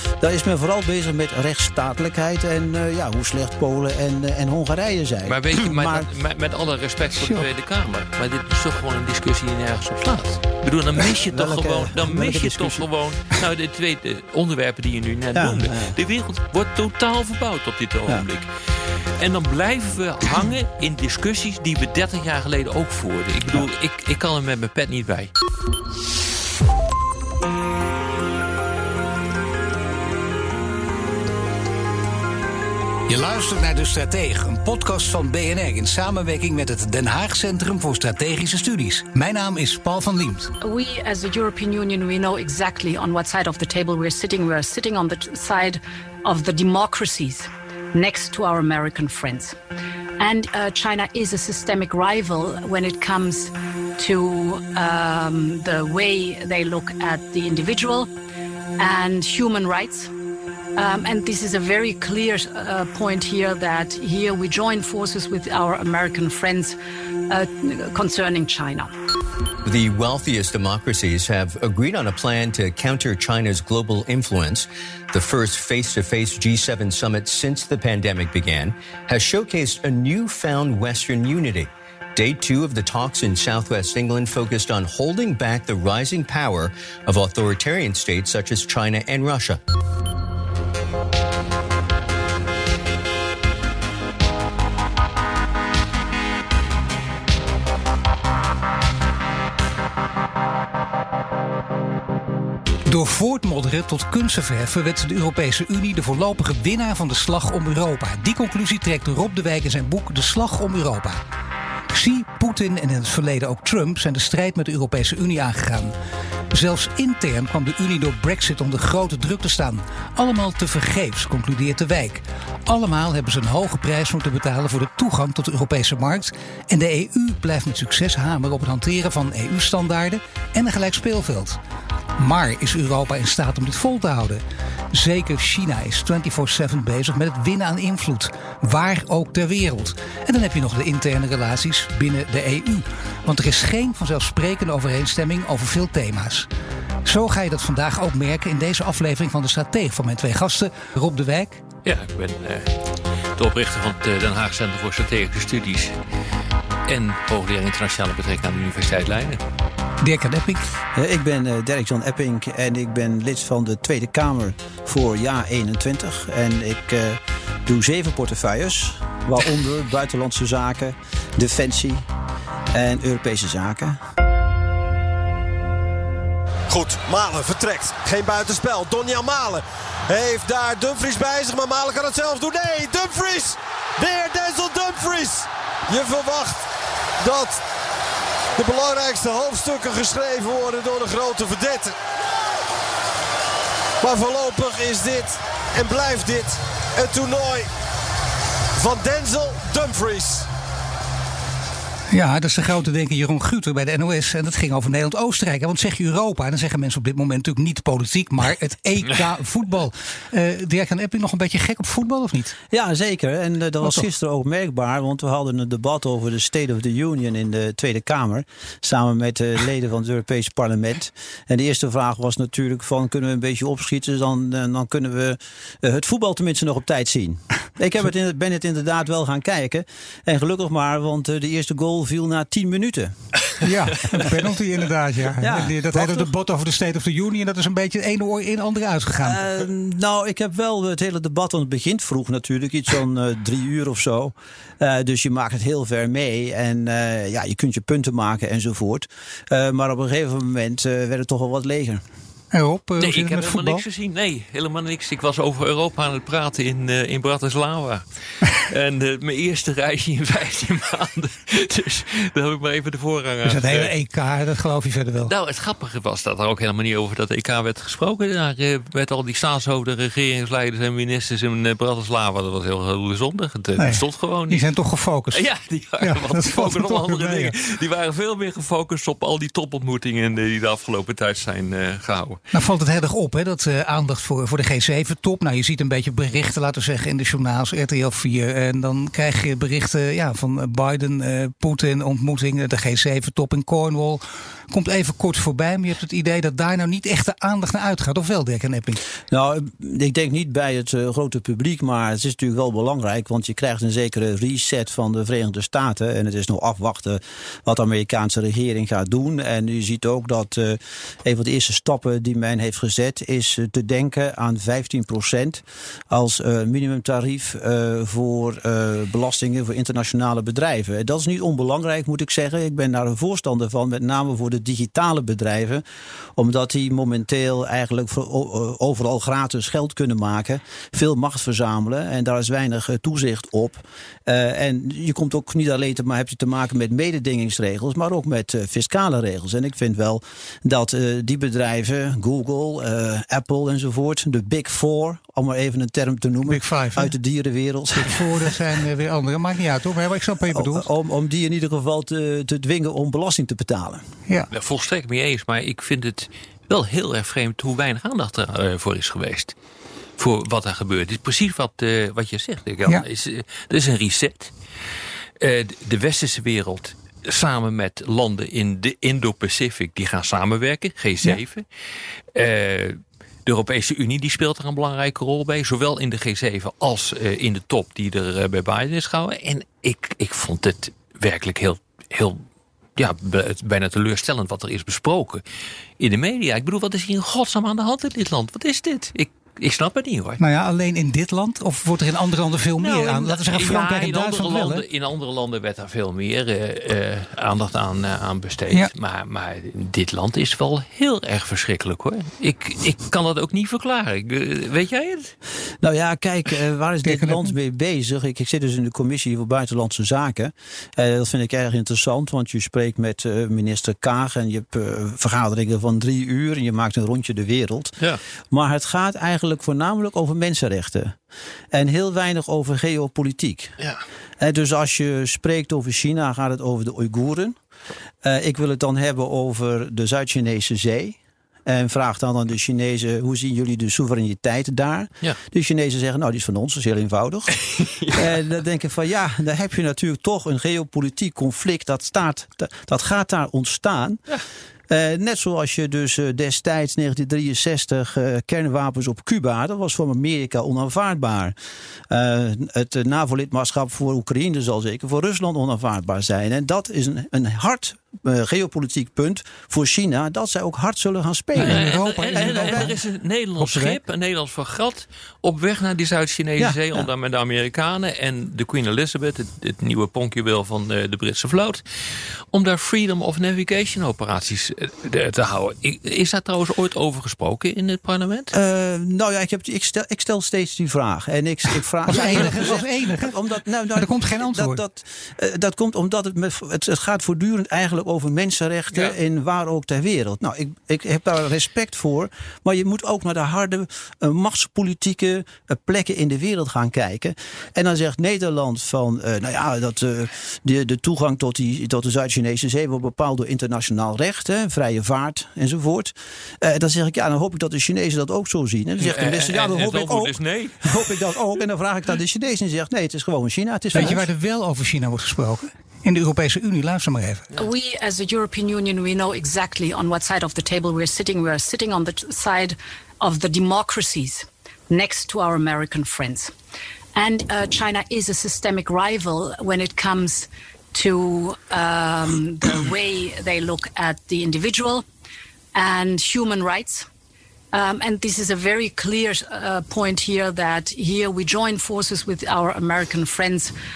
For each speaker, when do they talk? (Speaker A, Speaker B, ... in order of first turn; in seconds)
Speaker A: 0.2-6.1, 11.0-12.9, 15.3-16.0, 160.9-172.1, 172.7-174.0, 212.7-233.1, 235.4-236.3, 239.2-252.0, 299.3-325.8, 326.4-348.5, 350.5-354.1, 405.8-418.0, 418.5-421.2, 421.7-423.7, 424.4-427.6, 428.2-437.6, 438.1-444.2, 444.9-451.6, 452.1-462.9, 466.6-467.1, 478.5-514.2
Speaker B: 5.3-18.5, 19.2-25.3, 151.8-152.7, 153.4-156.0, 156.9-159.4, 253.0-258.0, 258.5-263.9, 265.2-274.7, 275.3-282.4, 354.5-359.6, 360.2-364.5, 365.4-371.6, 372.3-382.4, 383.0-385.4, 386.0-390.4, 392.8-405.3, 437.7-438.2, 461.6-471.8, 472.5-478.6, 509.0-511.1
Speaker C: 33.1-40.5, 102.9-111.2, 111.9-115.9, 116.5-131.6, 132.2-146.5, 147.1-151.6, 160.0-160.7, 202.1-212.6, 233.6-239.4, 252.5-253.8, 263.4-265.3, 273.8-275.4, 276.0-277.6, 282.5-299.0, 346.5-347.1, 348.0-350.9, 390.4-394.8, 407.0-407.5, 461.6-463.0, 463.6-464.0, 482.1-483.4, 483.9-484.8, 513.9-517.5
Speaker D: 40.6-49.6, 50.2-58.1, 58.8-60.1, 60.8-66.8, 67.3-68.9, 517.6-526.5, 527.1-535.0, 535.8-537.1, 537.7-543.7
Speaker E: 69.7-89.6
Speaker F: 176.7-186.7, 187.2-187.6, 188.6-192.0, 194.0-197.7, 198.8-200.5